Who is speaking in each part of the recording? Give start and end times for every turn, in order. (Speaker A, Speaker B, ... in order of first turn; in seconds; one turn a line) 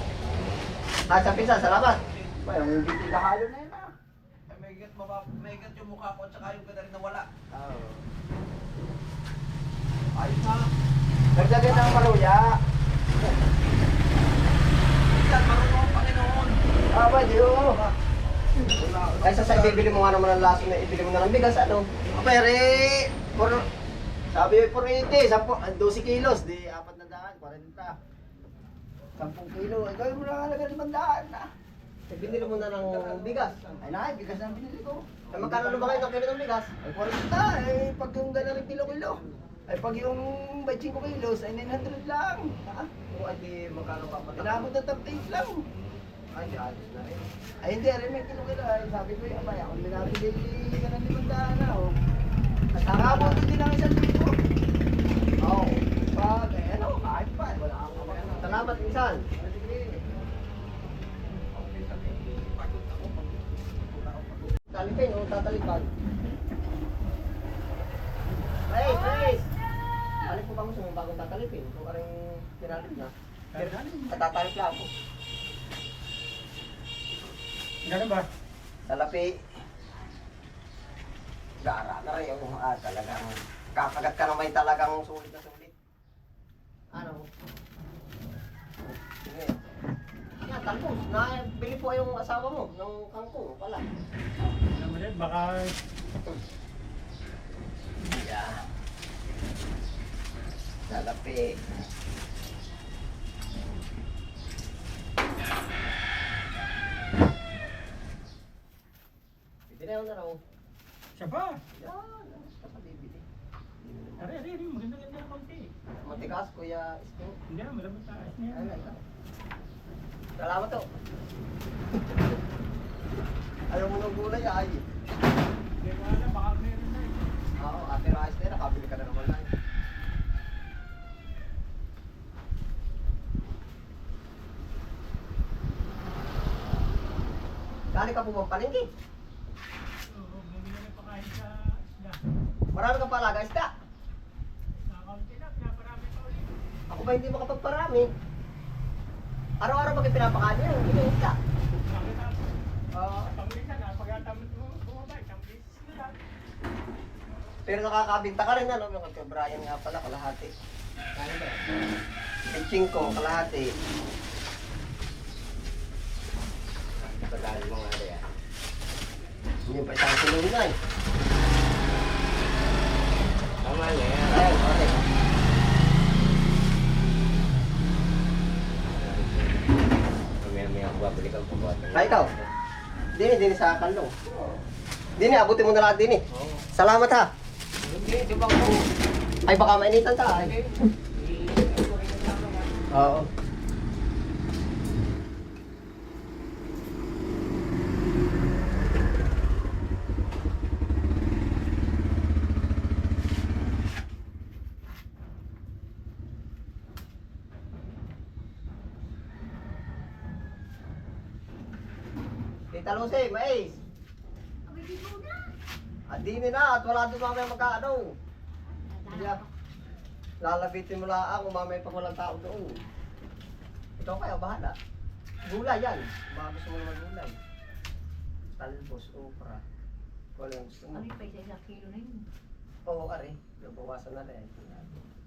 Speaker A: 1.1-2.0
Speaker B: 1.4-2.4
Speaker C: 2.4-3.9
Speaker B: 4.5-7.3
Speaker C: 7.5-8.0
Speaker B: 10.2-10.7
Speaker C: 11.3-12.5
Speaker B: 11.6-12.1
Speaker B: 15.1-16.6
Speaker C: 16.9-17.8
Speaker B: 18.7-20.1
Speaker A: 19.2-21.9
Speaker C: 22.1-23.6
Speaker C: 24.3-27.9
Speaker C: 29.2-31.5
Speaker A: 32.1-33.6
Speaker B: 32.2-33.8
Speaker C: 33.8-36.1
Speaker A: 35.3-36.7
Speaker C: 36.8-42.9
Speaker A: 43.1-44.7
Speaker C: 44.4-45.6
Speaker A: 46.3-47.3
Speaker C: 47.6-51.9
Speaker A: 52.7-53.4
Speaker C: 52.9-54.4
Speaker A: 55.5-55.7
Speaker C: 56.1-58.8
Speaker A: 58.3-59.3
Speaker B: 61.3-64.6
Speaker A: 64.7-65.9
Speaker A: 68.7-69.5
Speaker A: 70.2-74.9
Speaker D: 73.5-74.2
Speaker D: 77.8-78.3
Speaker A: 78.9-79.3
Speaker A: 81.6-85.7
Speaker A: 86.9-87.3
Speaker A: 88.9-89.7
Speaker A: 90.4-93.8
Speaker D: 94.7-95.7
Speaker A: 98.1-98.5
Speaker A: 100.9-101.5
Speaker A: 109.7-110.4
Speaker D: 111.2-111.6
Speaker A: 111.8-113.2
Speaker A: 113.8-114.3
Speaker D: 114.2-115.7
Speaker A: 116.0-117.3
Speaker D: 117.5-118.7
Speaker A: 118.5-119.0
Speaker A: 120.4-120.8
Speaker A: 123.7-124.8
Speaker D: 125.8-127.3
Speaker A: 127.6-129.5
Speaker A: 137.9-138.9
Speaker D: 140.1-142.2
Speaker A: 142.7-143.7
Speaker D: 144.8-146.5
Speaker A: 146.9-148.1
Speaker A: 149.6-151.4
Speaker D: 151.8-152.5
Speaker A: 152.9-153.3
Speaker D: 153.3-156.1
Speaker A: 157.7-160.5
Speaker B: 161.2-161.7
Speaker A: 162.5-163.7
Speaker B: 167.0-168.2
Speaker A: 169.7-170.8
Speaker B: 173.6-174.6
Speaker A: 174.3-175.0
Speaker B: 178.8-179.8
Speaker B: 180.4-182.5
Speaker A: 181.9-182.3
Speaker A: 183.2-184.1
Speaker A: 185.2-187.3
Speaker B: 186.3-186.6
Speaker B: 188.2-188.5
Speaker A: 189.5-190.5
Speaker A: 192.9-193.3
Speaker A: 212.7-213.8
Speaker E: 214.7-215.4
Speaker A: 216.1-218.1
Speaker E: 218.7-219.5
Speaker A: 219.1-219.4
Speaker A: 220.4-222.8
Speaker A: 224.0-224.8
Speaker A: 225.5-227.4
Speaker A: 228.6-229.6
Speaker A: 230.4-231.0
Speaker E: 230.9-232.2
Speaker A: 232.9-235.0